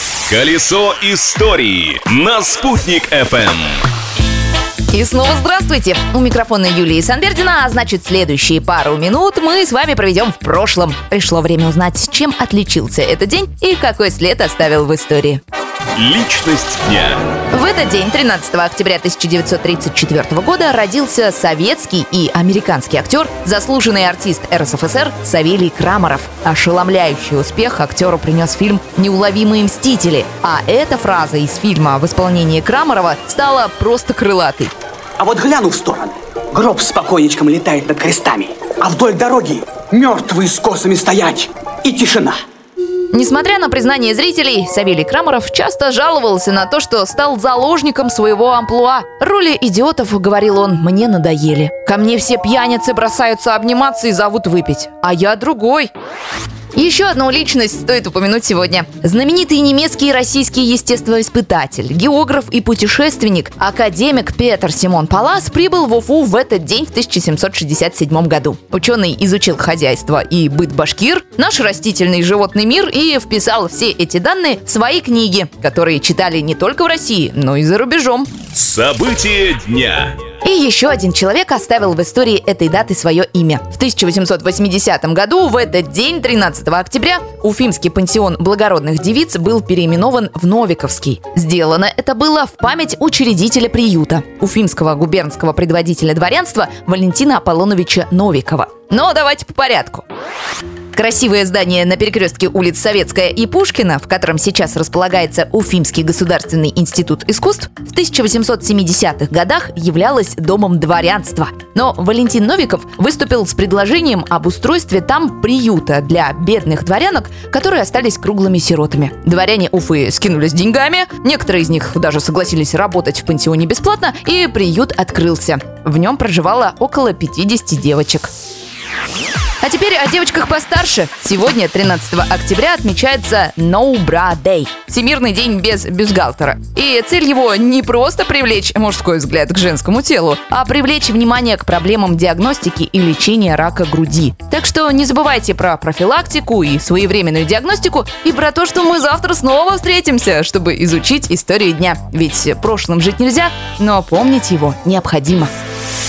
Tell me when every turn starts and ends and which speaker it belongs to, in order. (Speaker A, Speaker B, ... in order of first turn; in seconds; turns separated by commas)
Speaker A: 0.3-3.8, Speaker B: 4.9-15.4, Speaker A: 16.0-17.4, Speaker B: 17.5-34.7, Speaker C: 35.2-42.4, Speaker B: 43.1-55.9, Speaker B: 56.7-78.3, Speaker A: 78.5-80.2, Speaker B: 80.4-100.0, Speaker B: 100.9-128.3, Speaker B: 129.6-155.5